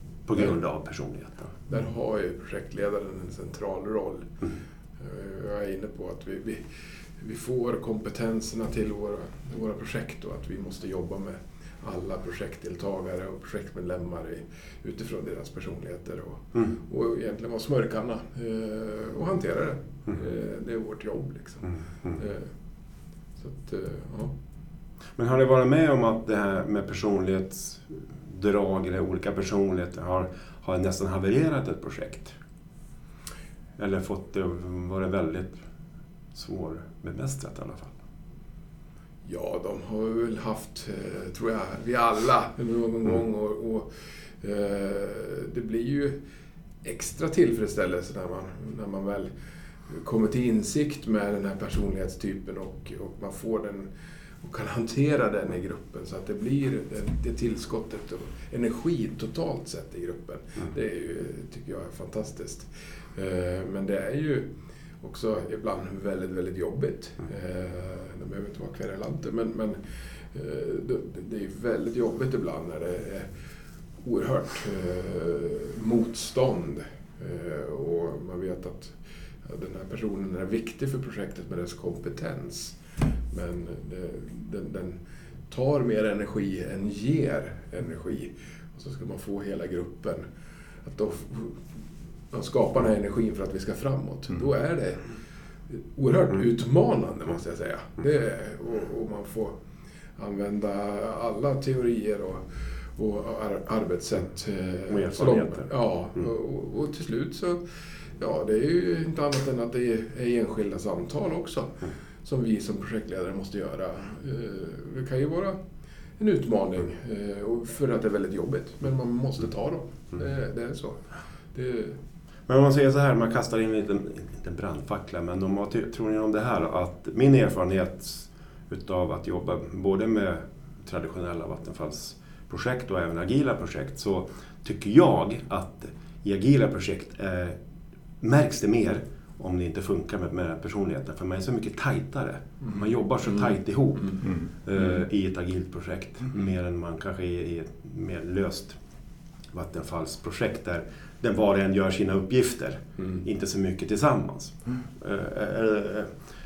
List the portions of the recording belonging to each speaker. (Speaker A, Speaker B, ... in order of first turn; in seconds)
Speaker A: 0.3-1.6, 25.1-32.4, 33.8-35.6, 36.3-37.9, 104.9-105.7, 122.5-137.6, 138.2-148.8, 149.5-156.1
Speaker B: 1.7-4.3, 5.0-6.6, 7.2-22.5, 23.4-24.3, 39.2-43.9, 44.4-46.2, 46.8-49.3, 49.9-53.9, 54.4-64.5, 65.0-69.8, 70.3-73.3, 74.0-82.8, 83.3-85.0, 85.5-90.2, 90.8-91.6, 92.3-95.1, 95.7-99.5, 100.2-102.4, 103.0-107.6, 108.2-115.6, 116.2-122.0, 153.0-153.2